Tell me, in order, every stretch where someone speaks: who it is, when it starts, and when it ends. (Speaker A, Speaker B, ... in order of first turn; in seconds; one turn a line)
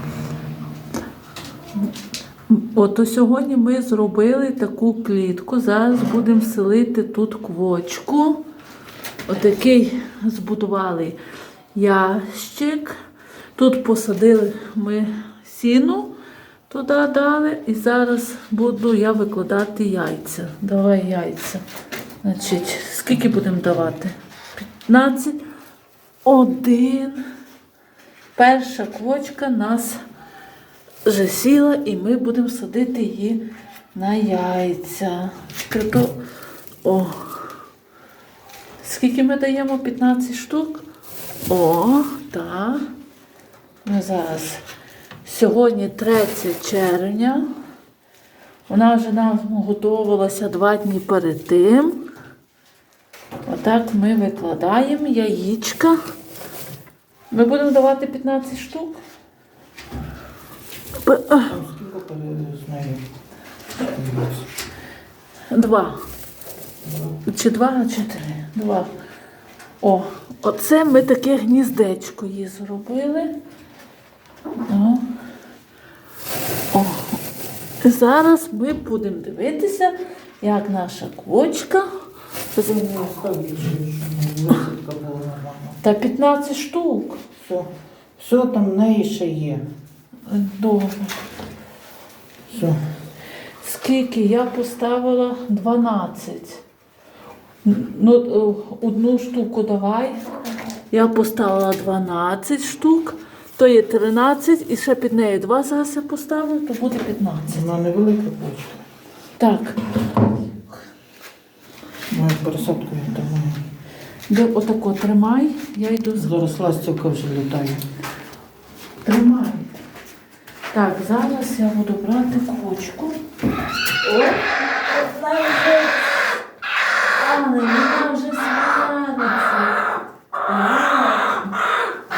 Speaker A: 2.5-8.4
Speaker A: 9.3-11.2
Speaker A: 11.8-13.0
Speaker A: 13.6-16.1
Speaker A: 16.7-21.6
Speaker A: 22.2-25.4
Speaker A: 26.2-27.2
Speaker A: 28.4-30.0
Speaker A: 31.0-33.4
Speaker A: 33.9-36.2
Speaker A: 36.8-37.4
Speaker A: 38.8-40.9
Speaker A: 41.5-42.9
Speaker A: 43.9-44.6
Speaker A: 45.2-47.5
Speaker A: 48.7-52.0
Speaker A: 53.5-56.0
Speaker A: 57.3-59.0
Speaker A: 61.0-61.5
Speaker B: 61.5-63.0
Speaker B: 63.8-64.5
Speaker A: 65.5-66.0
Speaker A: 67.2-68.9
Speaker A: 69.8-73.3
Speaker A: 74.7-75.1
Speaker A: 76.7-77.2
Speaker A: 77.8-81.9
Speaker B: 82.6-85.8
Speaker A: 85.8-87.2
Speaker B: 87.4-89.6
Speaker A: 90.3-91.2
Speaker B: 92.5-92.8
Speaker A: 93.6-96.6
Speaker A: 97.6-100.2
Speaker A: 100.9-107.7
Speaker B: 107.5-108.8
Speaker A: 109.4-109.9
Speaker B: 112.1-113.6
Speaker A: 114.3-116.4
Speaker B: 116.2-117.8
Speaker A: 119.0-119.8
Speaker A: 120.7-123.2
Speaker A: 124.0-126.4
Speaker A: 127.2-129.8
Speaker A: 130.5-131.6